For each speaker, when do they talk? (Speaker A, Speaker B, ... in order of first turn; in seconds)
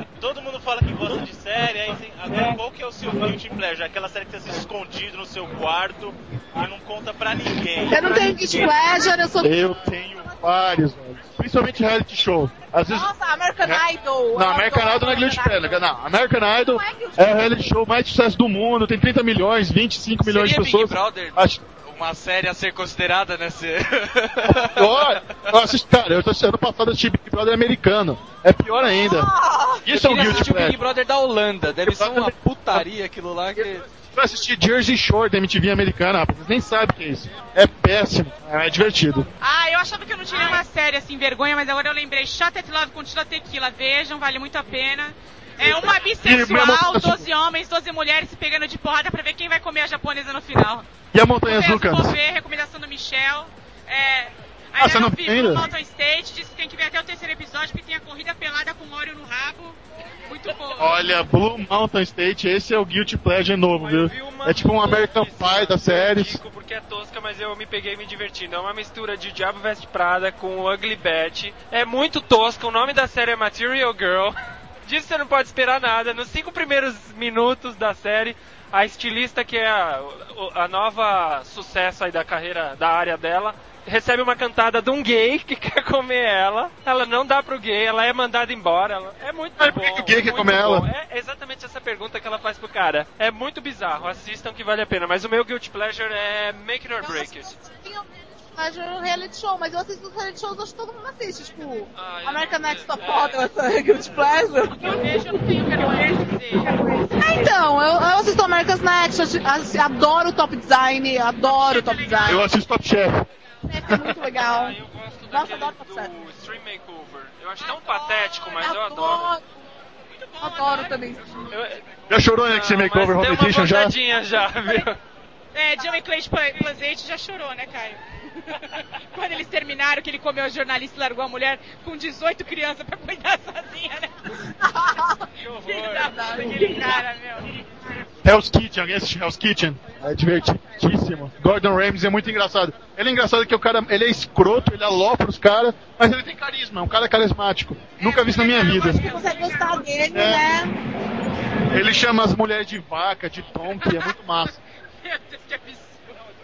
Speaker A: 0.2-8.5
Speaker B: 7.9-9.6, 12.9-15.8, 16.6-17.7, 28.9-30.4, 97.0-105.4, 106.7-112.4, 113.7-114.8, 115.3-116.1, 118.6-119.4, 120.4-121.5, 134.6-135.2, 136.2-136.8, 148.8-150.8
Speaker C: 9.4-13.1, 13.6-21.6, 24.6-29.3, 29.9-30.8, 31.8-32.9, 33.6-39.3, 46.2-47.3, 51.1-52.1, 54.8-55.7, 60.8-66.4, 89.6-90.9, 112.3-113.3, 122.1-124.0, 138.2-149.1, 150.1-150.5, 151.7-154.6
Speaker D: 20.2-25.6, 29.9-33.9
Speaker E: 39.4-50.9, 51.4-61.0, 104.8-106.8, 111.4-112.5, 117.6-118.7, 120.1-121.0, 125.5-134.1, 135.7-137.5, 148.0-150.0, 153.8-154.2, 155.0-156.1
Speaker F: 63.8-97.5, 102.0-103.5, 114.4-119.3, 121.5-121.8, 122.5-125.0, 135.4-136.2